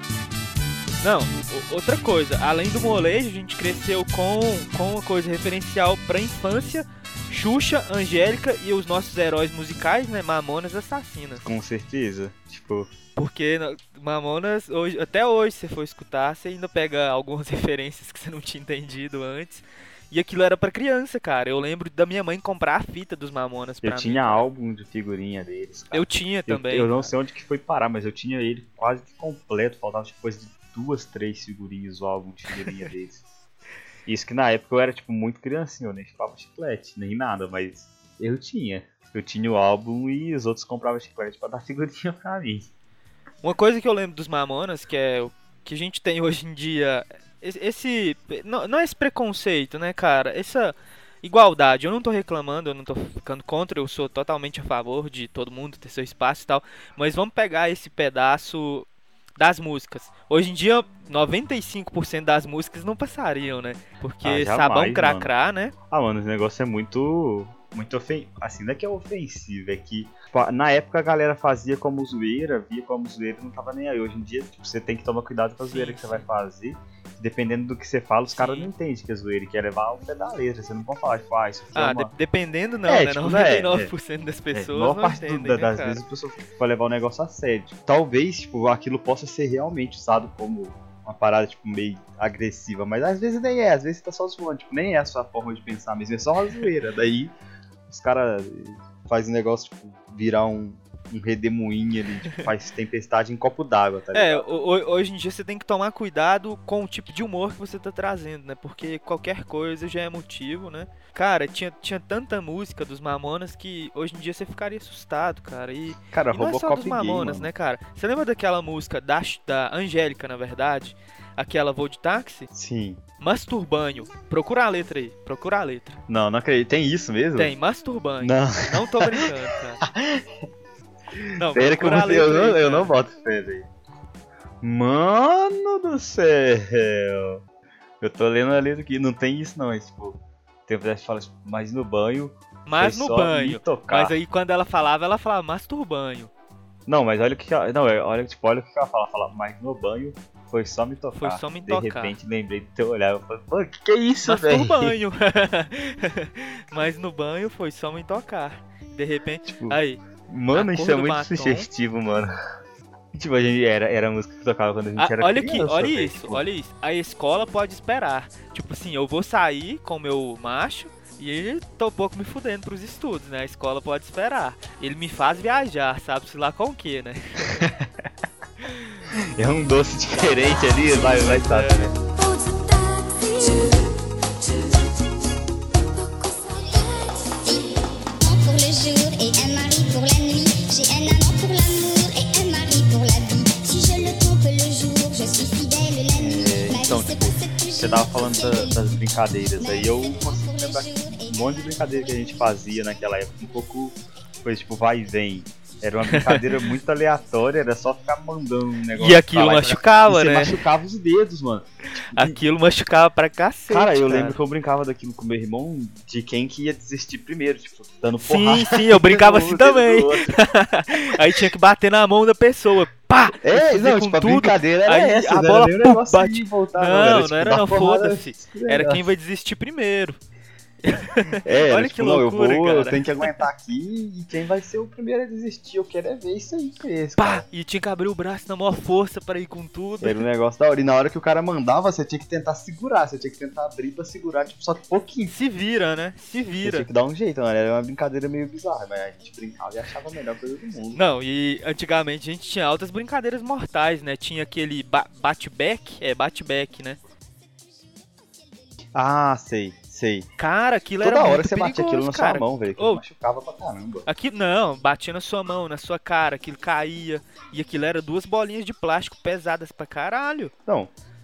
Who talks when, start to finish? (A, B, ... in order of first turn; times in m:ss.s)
0:01.0-0:11.4 A
0:11.4-0:12.9 B
0:13.2-0:24.4 A
0:23.8-0:33.2 B
0:25.9-0:27.1 A
0:34.0-0:42.7 B
0:43.4-0:58.9 A
0:59.4-1:05.7 A
1:04.2-1:05.3 B
1:05.9-1:22.1 B
1:15.6-1:16.2 A
1:18.3-1:18.7 A
1:21.7-1:26.0 A
1:22.8-1:23.9 B
1:24.5-1:37.3 B
1:37.9-1:44.5 B
1:44.1-2:02.5 A
1:56.1-1:57.5 B
2:02.5-2:03.0 B
2:03.2-2:06.0 A
2:06.1-2:07.5 B
2:07.4-2:09.8 A
2:08.2-2:09.3 B
2:09.8-2:10.2 B
2:11.1-2:13.7 B
2:11.4-2:12.9 A
2:14.6-2:17.4 B
2:18.0-2:24.1 B
2:22.7-2:26.3 A
2:26.9-2:35.0 B
2:31.1-2:32.2 A
2:34.2-2:40.0 A
2:39.4-2:42.3 B
2:40.5-2:41.7 A
2:43.1-2:46.4 B
2:45.0-2:57.6 A
2:57.4-2:58.1 B
2:59.1-3:01.9 B
3:00.2-3:01.9 A
3:00.6-3:01.2 C
3:02.1-3:05.0 C
3:05.7-3:18.9 C
3:16.1-3:32.4 B
3:19.6-3:22.4 C
3:26.0-3:26.5 A
3:29.0-3:30.6 A
3:32.1-3:34.4 A
3:33.7-3:40.3 B
3:38.2-3:50.2 A
3:41.0-3:41.4 B
3:43.4-3:49.1 B
3:50.8-3:53.4 A
3:51.4-3:57.4 B
3:57.2-4:00.2 A
4:00.0-4:05.3 B
4:05.3-4:06.9 A
4:06.6-4:11.0 B
4:10.9-4:17.0 A
4:18.9-4:20.3 B
4:20.4-4:23.0 A
4:21.0-4:24.1 B
4:24.0-4:30.5 A
4:30.6-4:30.9 B